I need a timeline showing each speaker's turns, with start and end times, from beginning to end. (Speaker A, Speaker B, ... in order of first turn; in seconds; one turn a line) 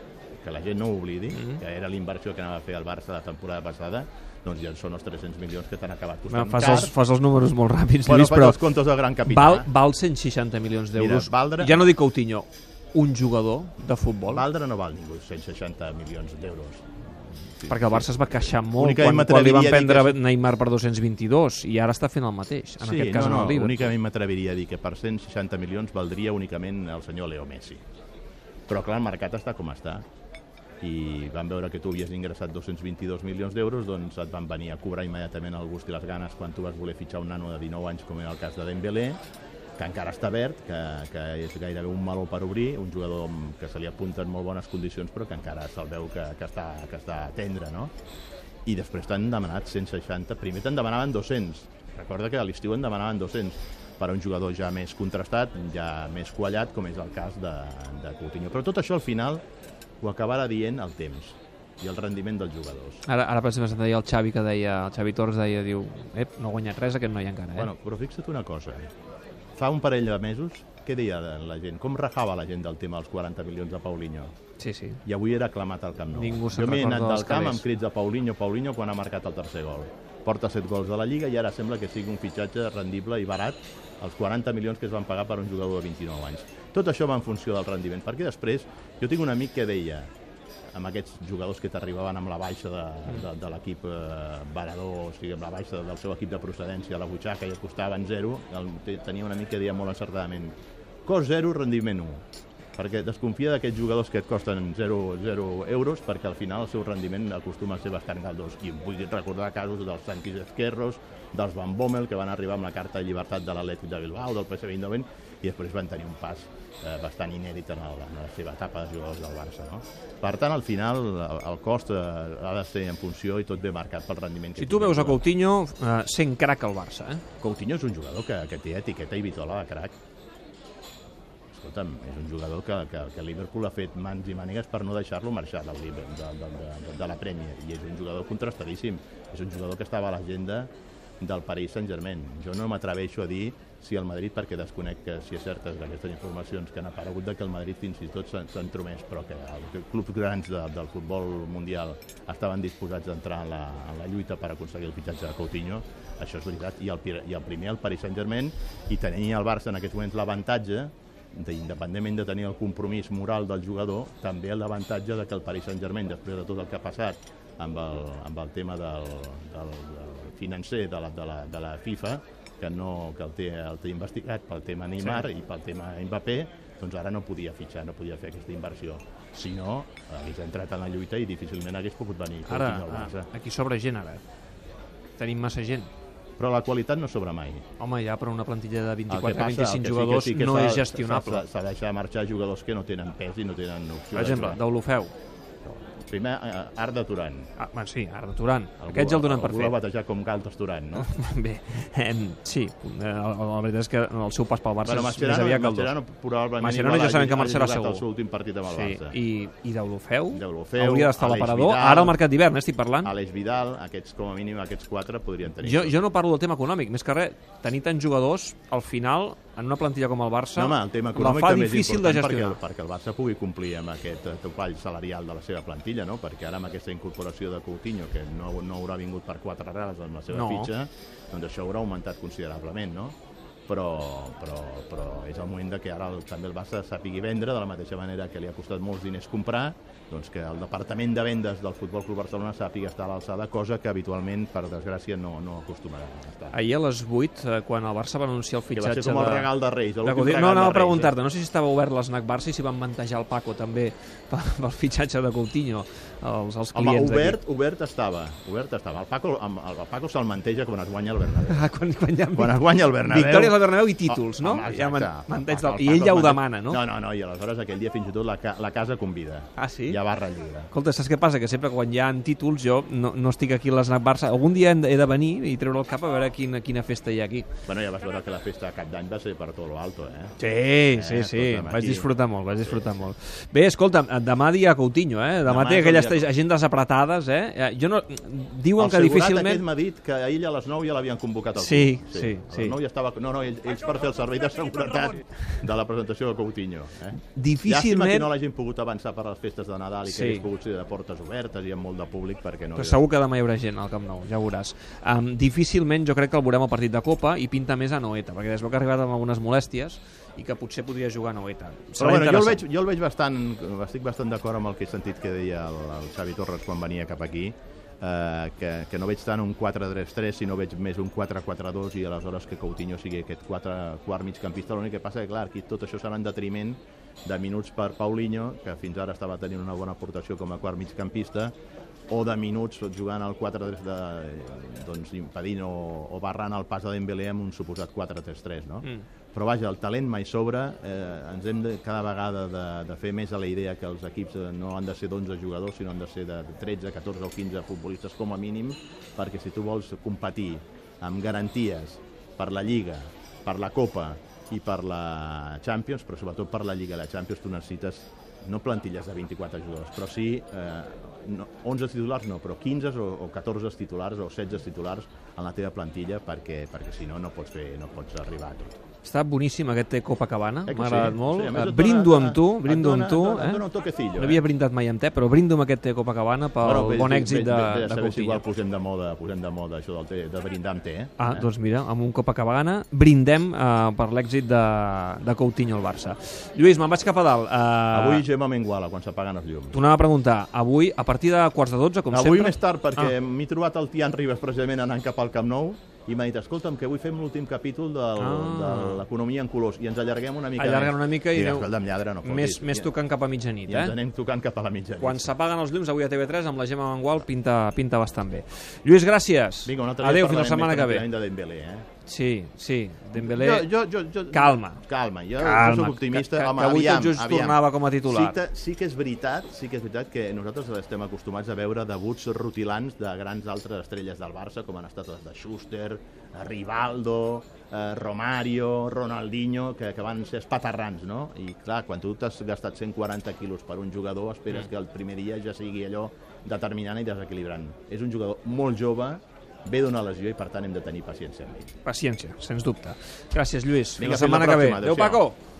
Speaker A: 0.4-6.9
Speaker B: 1.3-1.6
Speaker B: 6.3-14.4
Speaker A: 8.0-9.7
Speaker A: 10.9-11.9
Speaker A: 14.2-20.2
Speaker B: 17.7-23.9
Speaker A: 22.8-27.8
Speaker A: 28.7-30.0
Speaker A: 30.8-39.2
Speaker A: 39.8-47.9
Speaker A: 48.6-59.4
Speaker A: 60.0-63.0
Speaker B: 63.0-67.7
Speaker A: 67.5-68.9
Speaker A: 69.5-74.3
Speaker B: 74.6-75.0
Speaker A: 75.0-90.1
Speaker B: 76.1-77.7
Speaker A: 90.7-102.2
Speaker A: 102.8-125.2
Speaker B: 124.5-127.2
Speaker A: 127.4-129.9
Speaker A: 131.5-183.3
Speaker B: 175.0-175.3
Speaker B: 182.4-184.2
Speaker B: 185.2-185.9
Speaker A: 186.4-187.6
Speaker B: 187.8-191.4
Speaker A: 189.1-194.6
Speaker B: 194.1-195.1
Speaker A: 195.6-197.5
Speaker B: 197.6-199.8
Speaker A: 198.8-201.1
Speaker B: 200.9-205.9
Speaker A: 204.8-209.2
Speaker B: 206.6-208.1
Speaker B: 208.6-213.1
Speaker A: 210.3-212.2
Speaker A: 213.0-216.0
Speaker B: 215.5-222.6
Speaker A: 220.6-246.6
Speaker B: 230.3-230.7
Speaker B: 246.5-257.4
Speaker A: 248.7-251.2
Speaker A: 256.7-261.7
Speaker B: 261.4-266.8
Speaker A: 262.3-270.7
Speaker B: 269.6-270.0
Speaker B: 270.7-277.5
Speaker A: 277.6-280.3
Speaker B: 280.4-289.6
Speaker A: 280.9-283.1
Speaker A: 285.4-286.3
Speaker A: 288.8-303.0
Speaker B: 291.6-292.8
Speaker B: 297.3-298.3
Speaker B: 300.0-300.5
Speaker B: 302.8-312.6
Speaker A: 312.0-331.5
Speaker A: 332.1-368.8
Speaker B: 369.0-378.4
Speaker A: 370.7-374.4
Speaker A: 376.6-381.5
Speaker B: 381.2-388.2
Speaker A: 387.9-389.8
Speaker B: 389.7-393.2
Speaker A: 392.1-402.9
Speaker B: 398.2-399.0
Speaker B: 400.6-401.7
Speaker B: 402.2-404.0
Speaker A: 403.6-405.3
Speaker B: 405.0-411.1
Speaker A: 409.6-411.8
Speaker B: 412.0-413.8
Speaker A: 413.1-441.7
Speaker B: 414.3-414.8
Speaker B: 415.4-418.4
Speaker B: 441.8-445.4
Speaker A: 444.0-445.2